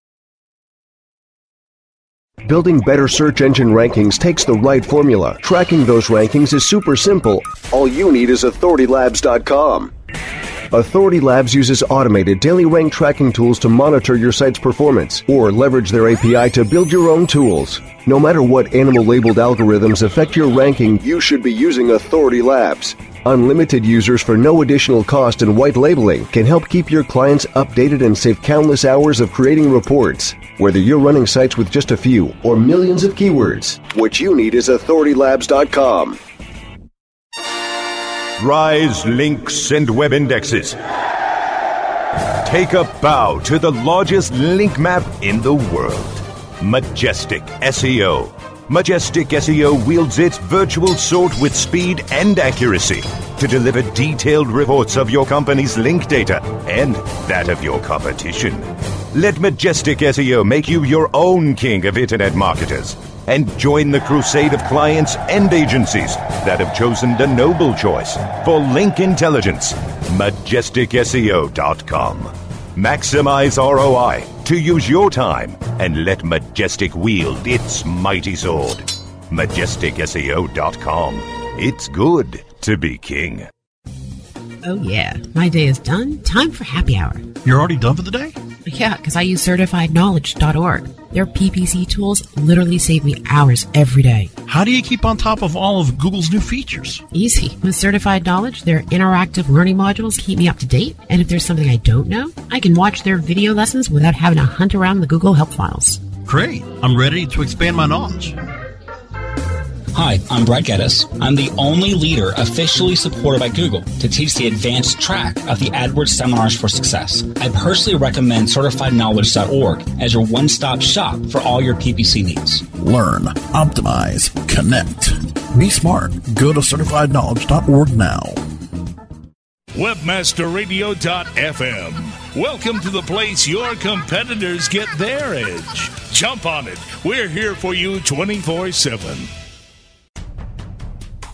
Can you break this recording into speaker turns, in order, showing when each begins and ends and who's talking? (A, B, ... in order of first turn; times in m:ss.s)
0:02.4-0:09.9 A
0:10.7-0:36.2 A
0:38.4-0:40.8 B
0:42.4-1:23.5 B
1:24.6-1:27.4 C
1:27.4-1:28.4 D
1:28.6-1:34.4 C
1:34.5-1:37.0 D
1:37.1-1:46.0 C
1:46.2-1:48.4 D
1:49.9-2:02.7 E
2:02.7-2:08.4 F
2:09.7-2:19.3 G